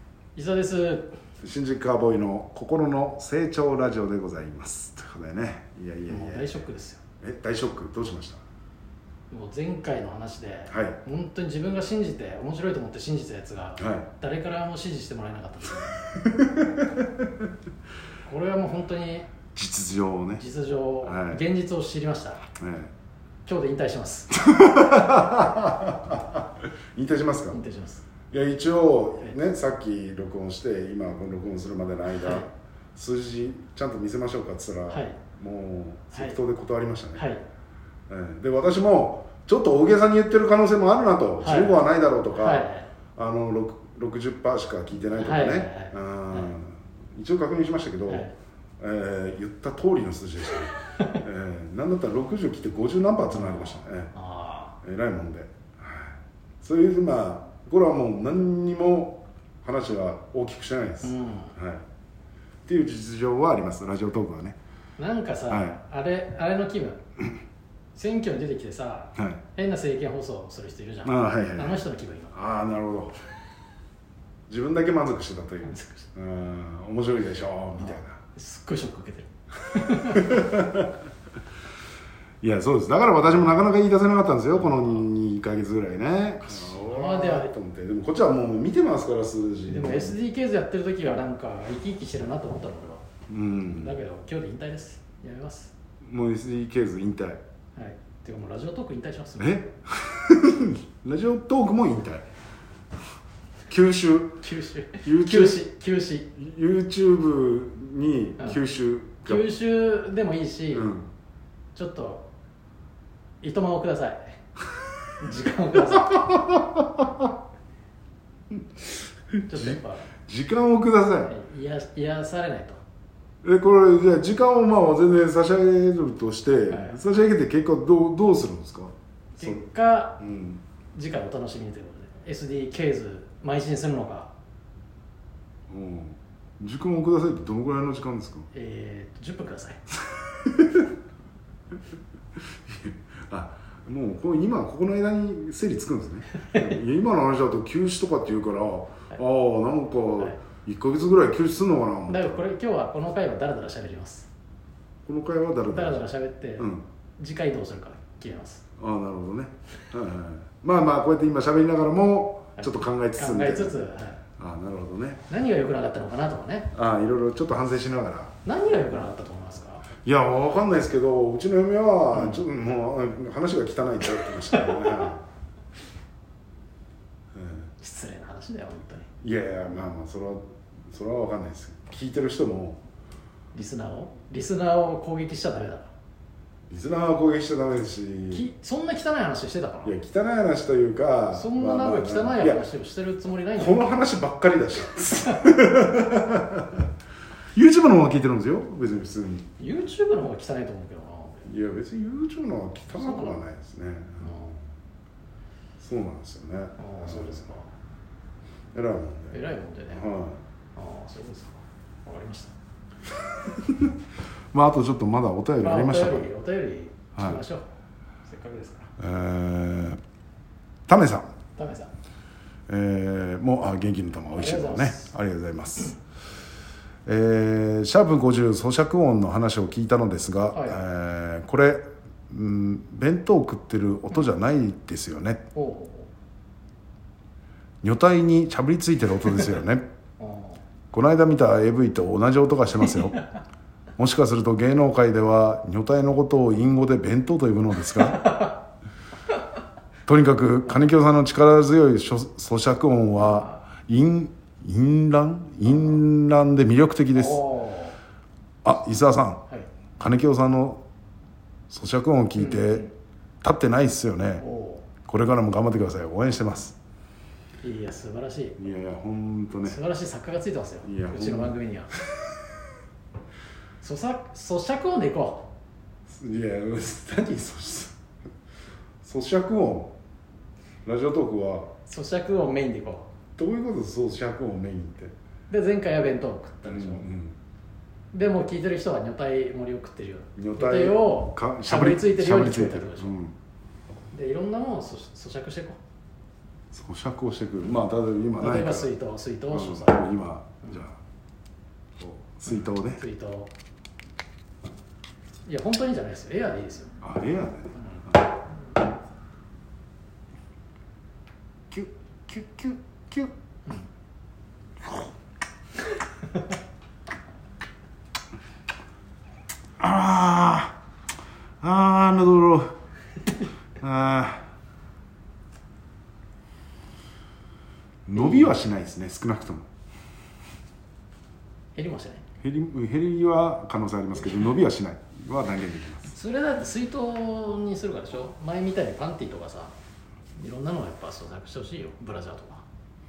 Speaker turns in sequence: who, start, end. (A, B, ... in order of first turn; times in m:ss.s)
0:00.4-0:01.1 A
0:01.4-0:06.6 B
0:06.1-0:07.0 A
0:07.2-0:08.4 B
0:09.3-0:16.0 A
0:10.7-0:11.0 B
0:13.8-0:14.1 B
0:16.2-0:17.3 B
0:18.2-0:19.3 A
0:19.5-0:20.4 B
0:20.4-0:22.4 A
0:21.0-0:21.4 B
0:22.6-0:22.9 B
0:23.5-0:24.3 A
0:24.3-0:27.6 B
0:27.5-0:28.0 A
0:28.3-0:37.3 B
0:32.2-0:32.5 A
0:34.9-0:35.2 A
0:37.2-0:37.4 A
0:38.1-0:48.3 B
0:41.4-0:42.9 A
0:45.2-0:46.5 A
0:48.1-0:48.3 A
0:48.8-0:54.1 B
0:53.3-0:54.8 A
0:54.8-1:01.8 B
1:01.0-1:01.5 A
1:02.7-1:04.6 B
1:05.0-1:07.0 A
1:05.5-1:05.8 B
1:07.9-1:12.3 A
1:09.2-1:09.4 B
1:11.0-1:13.2 B
1:14.5-1:18.2 B
1:15.6-1:16.1 A
1:17.8-1:20.4 A
1:20.1-1:20.9 B
1:22.4-1:30.2 B
1:24.5-1:25.1 A
1:26.4-1:27.5 A
1:29.7-1:33.0 A
1:33.3-1:34.0 B
1:33.7-1:35.7 A
1:36.0-1:37.4 B
1:37.8-1:39.6 A
1:39.4-1:42.3 B
1:43.7-1:44.4 B
1:44.4-1:46.3 A
1:45.0-1:45.7 B
1:46.3-1:49.5 B
1:49.2-1:50.9 A
1:50.7-1:51.1 B
1:51.8-1:52.3 A
1:53.4-1:54.3 A
1:55.2-1:56.4 A
1:56.0-1:57.3 B
1:59.3-2:01.4 B
1:59.5-2:00.1 A
2:01.3-2:02.8 A
2:03.4-2:09.6 B
2:06.7-2:07.0 A
2:09.4-2:10.2 A
2:10.2-2:10.6 B
2:10.9-2:14.3 A
2:15.7-2:18.5 B
2:18.5-2:19.8 A
2:20.4-2:20.9 B
2:22.7-2:32.5 B
2:32.1-2:34.3 A
2:35.1-2:36.0 B
2:35.7-2:38.6 A
2:36.6-2:36.9 B
2:38.8-2:43.8 B
2:42.6-2:44.2 A
2:44.4-2:45.2 B
2:45.3-2:46.7 A
2:46.7-2:48.3 B
2:48.4-2:49.9 A
2:50.0-2:55.2 B
2:52.1-2:52.4 A
2:54.5-2:55.1 A
2:57.3-2:57.7 B
2:57.8-2:59.1 A
2:59.2-3:02.8 B
3:03.5-3:05.9 A
3:06.7-3:08.5 B
3:08.3-3:10.0 A
3:09.8-3:12.6 B
3:11.3-3:14.0 A
3:13.6-3:16.9 B
3:15.1-3:15.6 A
3:17.5-3:19.5 B
3:19.6-3:21.5 A
3:21.4-3:24.4 B
3:22.9-3:23.4 A
3:24.2-3:24.6 A
3:25.8-3:27.5 B
3:26.8-3:27.7 A
3:28.7-3:30.4 B
3:29.3-3:30.1 A
3:30.8-3:32.6 A
3:33.6-3:33.9 B
3:34.5-3:36.3 B
3:35.6-3:37.7 A
3:37.2-3:37.4 B
3:38.3-3:38.9 A
3:39.0-3:40.0 B
3:40.9-3:41.3 B
3:41.6-3:41.9 A
3:42.7-3:46.0 B
3:44.3-3:45.1 A
3:47.1-3:55.5 B
3:50.5-3:50.8 A
3:55.6-3:56.1 A
3:57.8-3:59.9 B
4:00.2-4:00.6 A
4:00.9-4:03.2 B
4:04.0-4:08.5 B
4:08.2-4:08.5 A
4:10.1-4:17.4 B
4:13.2-4:13.6 A
4:15.7-4:15.9 A
4:17.1-4:18.0 A
4:18.6-4:19.4 B
4:20.0-4:20.8 B
4:21.7-4:22.9 B
4:22.4-4:22.9 A
4:23.4-4:24.4 B
4:24.4-4:24.9 A
4:25.0-4:26.8 B
4:27.6-4:28.6 A
4:28.6-4:29.8 B
4:29.6-4:31.9 A
4:30.8-4:31.6 B
4:33.8-4:35.5 A
4:36.1-4:38.0 B
4:39.0-4:40.0 B
4:40.8-4:41.7 B
4:41.9-4:43.1 A
4:43.4-4:45.1 B
4:45.5-4:47.1 A
4:46.7-4:47.4 B
4:48.1-4:53.2 A
4:50.4-4:53.4 B
4:54.1-4:55.8 A
4:56.7-4:58.9 B
4:58.4-5:00.1 A
4:59.5-5:01.0 B
5:02.0-5:03.0 B
5:02.5-5:03.5 A
5:05.5-5:07.0 A
5:07.0-5:08.3 B
5:11.7-5:13.3 B
5:19.8-5:20.8 B
5:21.6-5:22.7 B
5:23.8-5:24.5 B
5:28.1-5:29.7 B
5:28.2-5:28.6 A
5:31.8-5:32.2 A
5:32.4-5:36.2 B
5:36.1-5:39.7 A
5:40.4-5:42.6 A